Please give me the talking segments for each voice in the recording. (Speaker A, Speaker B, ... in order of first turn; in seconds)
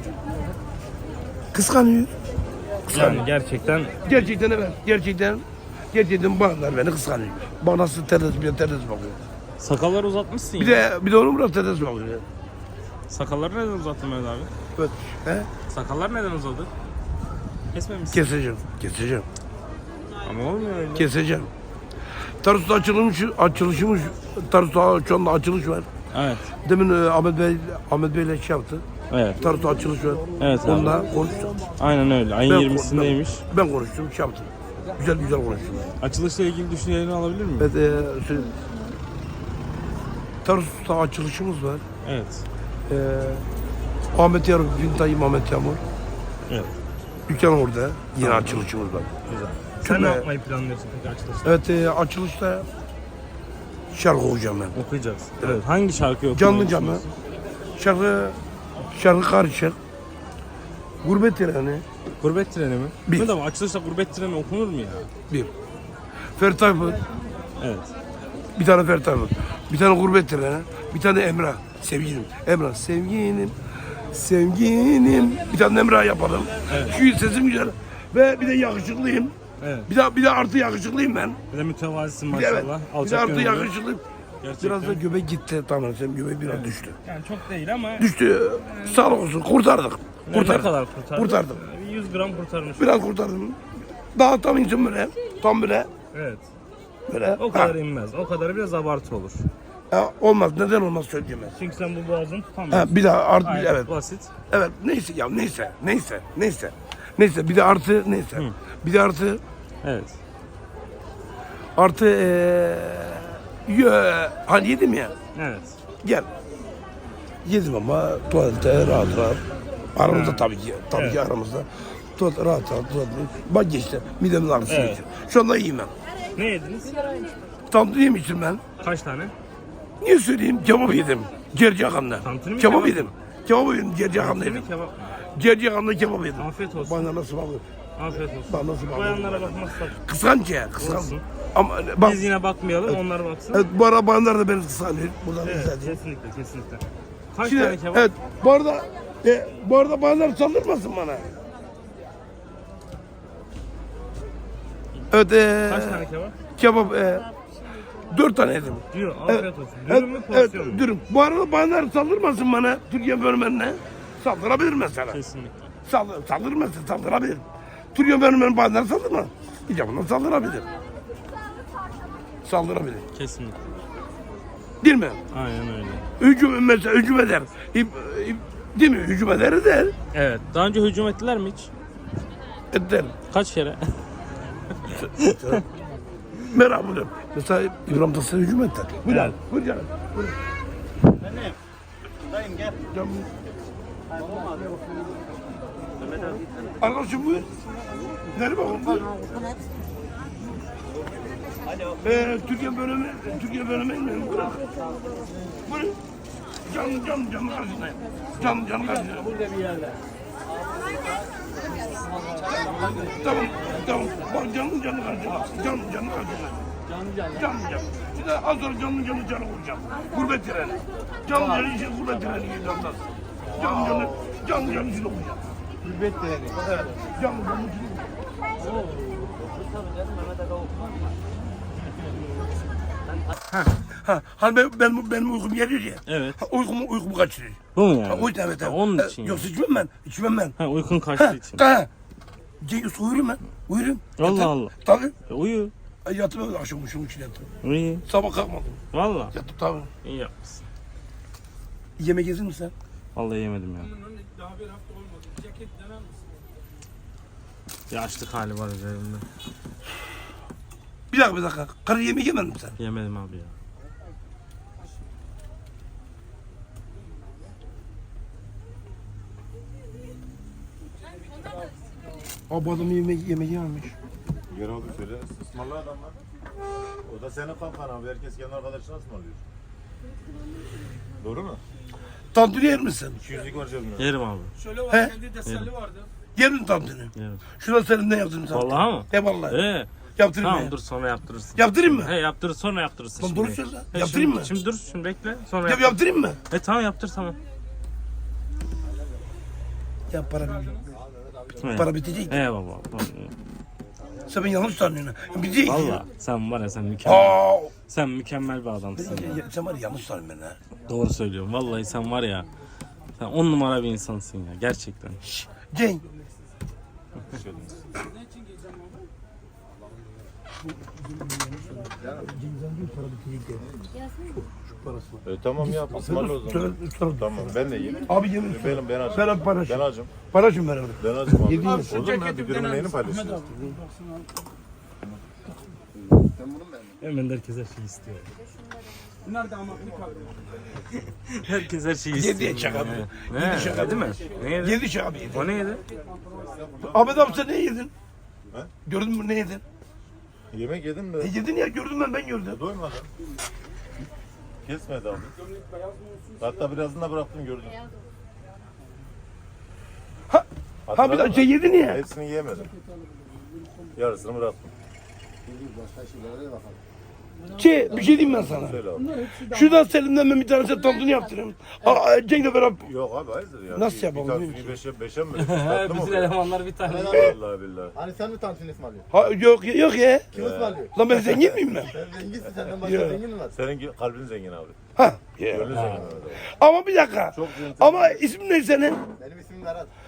Speaker A: 1.5-2.1, 2.9-3.2, 4.0-9.2, 10.6-12.2, 14.8-15.5, 18.1-19.3, 21.0-21.5, 22.4-25.9, 26.6-28.8, 29.4-31.6, 32.4-35.9, 37.6-38.6, 40.5-41.8, 42.9-43.5, 44.1-45.8, 47.3-49.1, 49.8-50.3, 51.4-52.7, 53.9-54.8, 56.3-57.0, 57.8-59.8, 61.0-61.8, 66.4-67.0, 68.6-73.5, 74.1-79.3, 79.9-81.4, 82.3-84.0, 84.6-87.0, 88.0-91.6, 92.8-93.6, 94.1-95.9, 97.1-97.7, 99.9-101.5, 102.7-103.9, 104.5-109.4, 111.8-115.1, 116.0-116.3, 117.5-119.4, 120.0-125.9, 127.7-128.6, 130.0-134.7, 135.3-137.6, 138.5-142.2, 143.5-146.0, 147.4-151.3, 155.1-156.1, 156.6-157.3, 158.1-165.2, 165.9-170.7, 172.4-173.1, 174.8-175.2, 176.2-179.9, 182.7-183.2, 184.9-185.6, 186.4-190.3, 192.9-193.3, 196.8-197.5, 198.3-199.2, 202.0-204.7, 205.7-206.0, 206.7-209.4, 212.6-216.7, 217.3-225.5, 227.2-228.1, 234.0-240.6, 241.2-241.9, 242.6-245.1, 246.1-247.5, 248.1-248.8, 249.3-249.9, 252.0-252.7, 261.1-262.8, 272.5-273.9, 282.3-283.2, 284.7-285.3, 286.4-289.6, 290.2-290.8, 291.6-292.1, 293.2-294.5, 295.7-296.4, 300.1-300.9, 301.6-302.4, 304.3-306.0, 307.1-307.7, 309.0-310.6, 315.7-316.0, 321.4-323.6, 324.4-332.1, 342.1-345.6, 346.9-347.9, 348.9-349.6, 351.2-352.6, 360.3-362.0, 367.5-372.9, 373.7-374.8, 379.1-380.3, 380.9-381.9, 382.7-383.2, 385.0-385.7, 386.4-389.0
Speaker B: 2.9-4.0, 9.6-10.8, 13.1-14.5, 15.7-16.7, 17.7-18.3, 20.2-21.1, 26.1-26.5, 29.1-29.4, 30.4-31.0, 31.8-33.4, 36.0-37.7, 42.0-42.5, 46.5-46.8, 48.2-48.6, 49.3-51.6, 54.7-57.1, 62.2-65.1, 67.6-67.9, 76.7-77.0, 79.6-79.9, 81.5-83.7, 84.4-85.0, 86.5-88.1, 88.7-89.1, 90.3-93.0, 96.1-96.5, 97.4-99.5, 101.5-104.3, 109.8-110.2, 115.3-115.8, 120.1-121.2, 124.7-125.0, 126.4-127.0, 128.8-129.3, 132.2-133.1, 134.1-135.2, 136.4-137.1, 138.0-140.0, 140.8-141.2, 142.0-143.7, 145.4-148.1, 155.7-156.3, 158.9-160.9, 165.1-165.7, 173.1-173.6, 175.3-176.1, 180.1-181.7, 183.3-184.0, 185.2-185.6, 189.1-189.3, 236.1-236.4, 237.8-239.5, 240.6-241.7, 244.2-244.8, 245.3-245.7, 247.6-248.1, 248.9-249.3, 250.0-250.6, 253.2-254.0, 257.9-259.3, 262.8-263.5, 284.0-284.6, 285.4-285.7, 287.1-287.4, 288.5-289.9, 290.4-297.4, 301.6-303.3, 305.6-309.4, 310.9-312.5, 313.2-315.5, 337.0-338.3, 340.8-345.9, 375.4-377.4, 385.7-386.0
Speaker C: 226.1-226.6, 301.2-301.6, 322.0-322.3, 323.6-323.9, 336.1-336.9, 365.5-366.8, 376.8-377.3, 377.9-379.1, 380.3-380.9, 381.8-383.6, 385.8-386.1, 389.2-389.9
Speaker D: 274.5-276.2, 277.1-279.4, 281.2-281.6, 283.2-284.1, 317.2-317.9, 325.2-330.1, 331.0-333.6, 342.8-344.2, 346.2-347.3, 350.5-351.3, 352.5-353.1, 354.6-355.4, 356.4-357.9, 360.9-362.8, 363.9-364.7, 368.3-369.2, 372.8-376.4, 377.1-378.0, 380.3-381.2, 383.5-384.8, 385.5-386.4, 387.3-388.2